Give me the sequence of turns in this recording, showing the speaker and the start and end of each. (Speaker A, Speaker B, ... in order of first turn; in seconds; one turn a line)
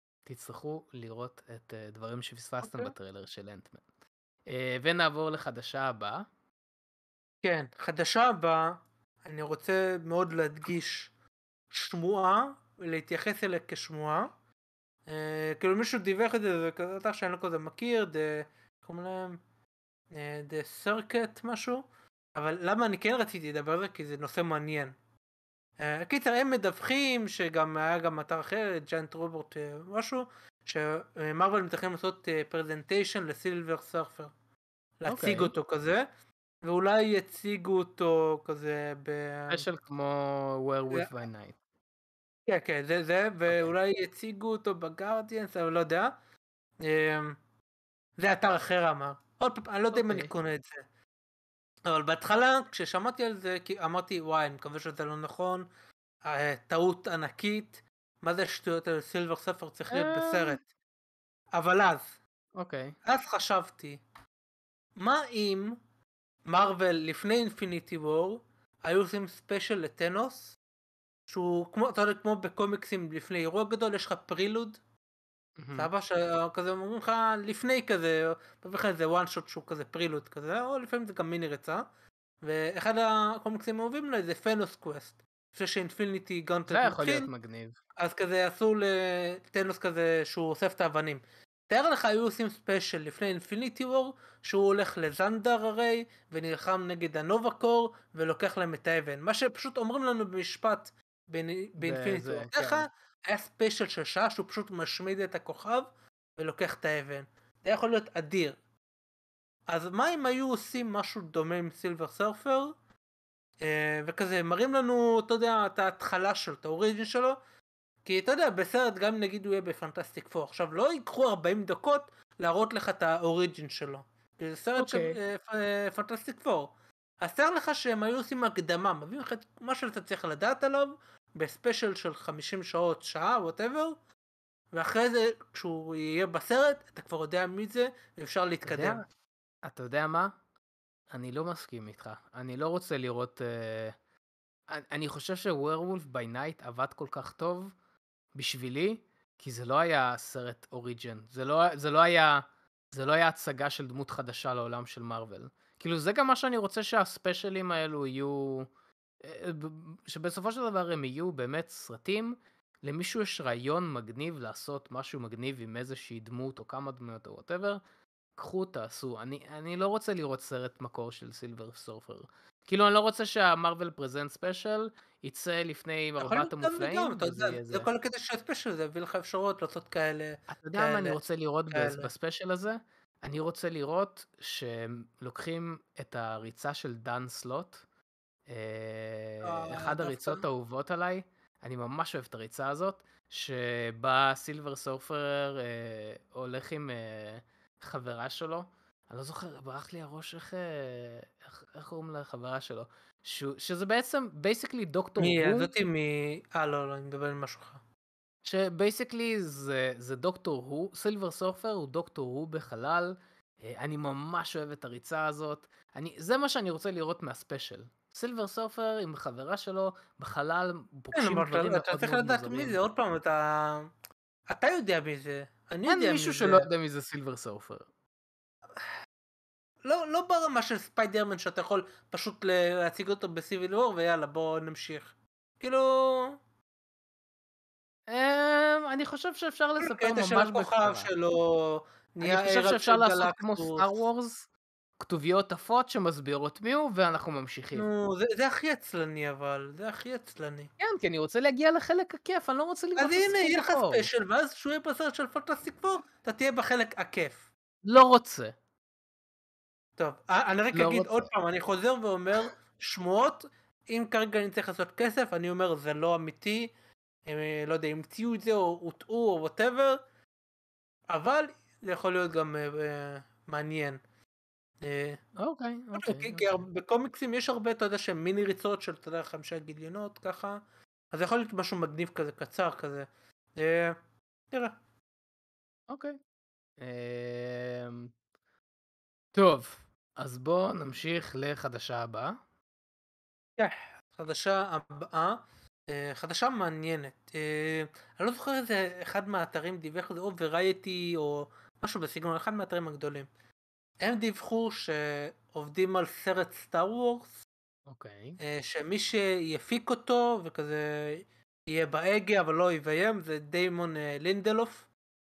Speaker A: 0.2-3.8
Speaker A: 4.5-6.2
Speaker B: 7.4-11.1
Speaker B: 11.7-14.3
Speaker B: 15.1-19.4
Speaker B: 20.1-21.8
Speaker B: 22.3-24.9
Speaker B: 25.8-34.3
Speaker B: 35.0-36.0
Speaker A: 35.1-35.5
Speaker B: 36.6-39.6
Speaker A: 39.5-41.5
Speaker B: 42.5-46.1
Speaker B: 46.8-47.4
Speaker B: 48.2-50.8
Speaker A: 49.9-50.3
Speaker B: 51.8-55.6
Speaker B: 56.2-60.6
Speaker A: 59.9-60.6
Speaker B: 61.5-62.2
Speaker A: 62.6-63.0
Speaker B: 63.0-64.0
Speaker B: 65.0-65.8
Speaker B: 66.5-70.5
Speaker B: 71.3-74.8
Speaker A: 75.6-75.9
Speaker B: 75.7-81.8
Speaker B: 82.4-87.3
Speaker A: 86.7-87.7
Speaker B: 88.0-108.5
Speaker A: 101.8-102.8
Speaker B: 109.7-112.7
Speaker B: 113.6-117.4
Speaker B: 118.0-133.9
Speaker A: 124.8-125.2
Speaker B: 134.7-139.0
Speaker A: 138.6-139.0
Speaker A: 139.6-140.3
Speaker A: 141.1-143.9
Speaker A: 144.7-147.7
Speaker A: 148.3-158.7
Speaker A: 159.2-167.8
Speaker A: 168.4-177.9
Speaker B: 176.2-181.2
Speaker A: 180.5-187.8
Speaker B: 181.7-182.1
Speaker A: 188.5-205.7
Speaker B: 189.4-190.4
Speaker B: 205.2-207.8
Speaker A: 208.4-222.8
Speaker B: 221.1-223.9
Speaker B: 224.5-226.7
Speaker A: 225.8-227.8
Speaker B: 229.8-236.4
Speaker A: 238.1-241.1
Speaker B: 239.8-244.0
Speaker A: 242.2-244.5
Speaker A: 245.0-247.9
Speaker B: 247.7-250.7
Speaker A: 250.8-254.1
Speaker B: 253.0-257.4
Speaker A: 257.8-258.5
Speaker B: 260.0-266.7
Speaker A: 260.7-261.2
Speaker B: 267.2-270.0
Speaker B: 271.1-274.0
Speaker B: 274.8-275.2
Speaker A: 275.4-276.4
Speaker B: 275.9-280.6
Speaker B: 281.1-283.9
Speaker A: 285.9-286.2
Speaker A: 286.8-288.1
Speaker A: 289.3-292.4
Speaker B: 293.6-303.3
Speaker B: 304.0-307.4
Speaker A: 307.9-308.4
Speaker B: 308.4-314.9